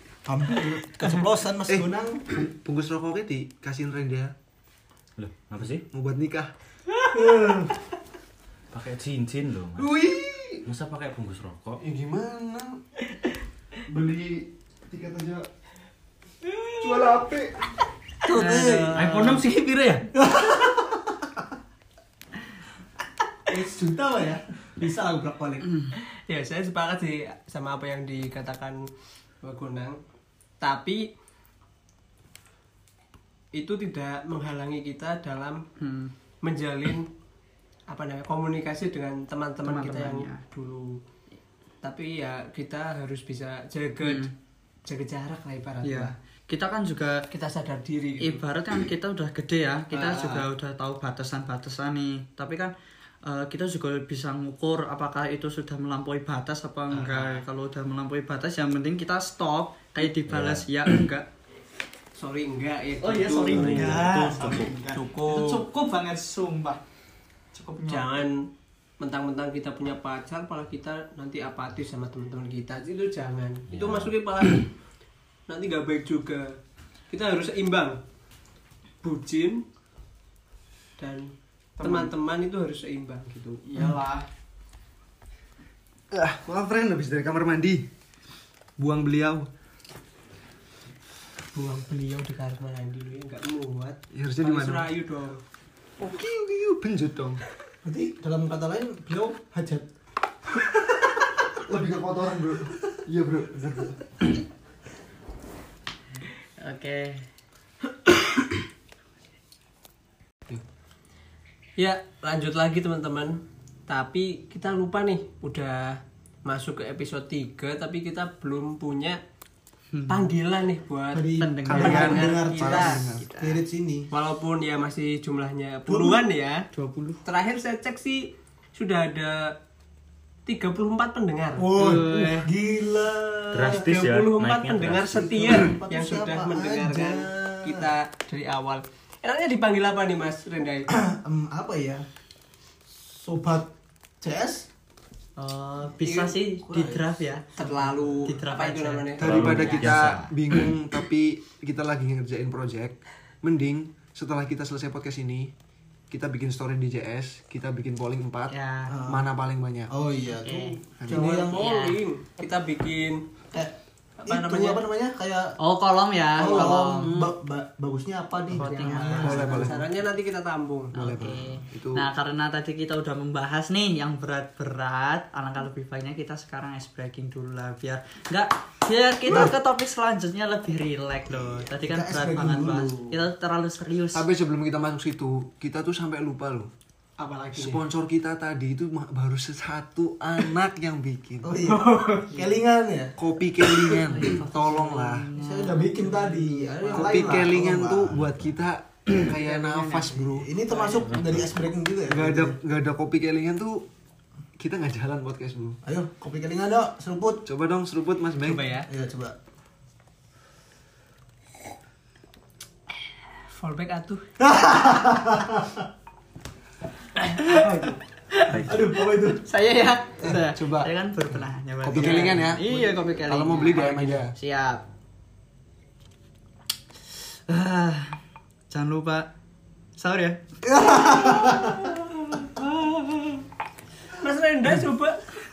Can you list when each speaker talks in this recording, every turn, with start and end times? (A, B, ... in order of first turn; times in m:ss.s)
0:00.2-0:02.3 A
0:01.7-0:04.3 B
0:05.2-0:05.8 C
0:05.9-0:06.5 B
0:07.1-0:07.7 A
0:08.7-0:10.0 C
0:09.8-0:10.6 B
0:10.6-0:11.8 C
0:11.8-0:12.8 B
0:13.9-0:15.5 B
0:16.8-0:17.5 B
0:18.3-0:19.0 A
0:18.3-0:19.4 D
0:18.4-0:20.1 C
0:20.2-0:21.2 A
0:23.5-0:25.6 A
0:25.6-0:25.9 D
0:26.3-0:28.8 E
0:29.4-0:30.0 E
0:30.6-0:31.1 E
0:33.5-0:35.6 E
0:35.8-0:36.1 D
0:36.4-0:37.1 E
0:37.9-0:41.0 E
0:39.6-0:40.4 D
0:41.8-0:44.3 E
0:44.0-0:44.3 D
0:44.8-0:46.1 E
0:45.8-0:47.2 D
0:47.3-0:48.4 E
0:48.2-1:01.3 D
0:49.9-0:50.5 E
0:56.9-0:57.4 C
1:00.3-1:00.6 C
1:02.2-1:04.1 E
1:03.0-1:06.8 D
1:03.4-1:04.8 C
1:04.9-1:05.6 E
1:07.5-1:08.2 D
1:07.8-1:08.5 E
1:09.0-1:14.7 E
1:13.7-1:14.1 C
1:15.5-1:16.6 E
1:17.1-1:18.0 E
1:19.0-1:19.6 E
1:21.0-1:23.5 E
1:21.8-1:22.1 D
1:23.6-1:24.3 D
1:26.1-1:27.9 B
1:28.8-1:29.5 B
1:31.5-1:35.4 E
1:34.1-1:34.9 B
1:36.0-1:37.4 B
1:37.8-1:39.9 A
1:41.6-1:44.1 B
1:46.6-1:47.2 D
1:51.8-1:59.2 E
1:59.9-2:00.3 D
2:00.1-2:03.0 E
2:01.1-2:04.1 A
2:01.3-2:03.6 D
2:01.6-2:03.3 B
2:04.1-2:06.7 E
2:05.9-2:06.2 A
2:06.7-2:07.2 D
2:07.2-2:09.6 E
2:10.4-2:12.0 E
2:11.6-2:13.9 A
2:11.7-2:12.5 D
2:13.5-2:15.7 C
2:13.7-2:20.9 E
2:15.2-2:17.9 A
2:20.9-2:22.0 A
2:23.0-2:24.7 A
2:25.4-2:27.4 D
2:26.6-2:28.2 A
2:27.6-2:29.6 E
2:28.2-2:30.3 D
2:29.2-2:35.5 B
2:29.2-2:30.3 C
2:36.1-2:38.5 B
2:38.5-2:38.9 D
2:38.9-2:39.2 A
2:39.0-2:39.9 B
2:39.9-2:41.6 A
2:40.4-2:42.0 D
2:41.0-2:41.3 B
2:41.1-2:43.2 E
2:44.2-2:44.8 E
2:44.2-2:45.6 A
2:45.6-2:47.3 D
2:46.4-2:49.8 A
2:46.4-2:46.8 E
2:48.5-2:49.6 D
2:48.6-2:50.9 E
2:49.2-2:49.8 B
2:50.9-2:52.0 B
2:51.0-3:04.3 D
3:01.4-3:03.2 A
3:04.1-3:06.7 B
3:07.5-3:11.6 B
3:11.4-3:13.2 A
3:11.6-3:12.4 E
3:13.2-3:15.3 B
3:14.1-3:17.5 D
3:15.4-3:18.2 A
3:16.9-3:20.5 B
3:19.2-3:21.1 D
3:20.2-3:22.6 A
3:20.9-3:21.5 C
3:22.1-3:23.8 B
3:24.6-3:25.8 B
3:25.8-3:27.4 A
3:27.4-3:28.7 B
3:28.4-3:28.9 E
3:28.8-3:29.3 A
3:33.5-3:34.2 E
3:34.4-3:35.8 A
3:37.2-3:38.0 E
3:38.3-3:44.8 D
3:38.5-3:38.9 C
3:38.6-3:39.4 A
3:40.2-3:40.9 B
3:41.8-3:44.3 B
3:42.0-3:42.3 E
3:47.5-3:48.2 D
3:48.7-3:49.3 D
3:50.0-3:50.4 D
3:50.6-3:52.0 A
3:54.2-3:55.3 E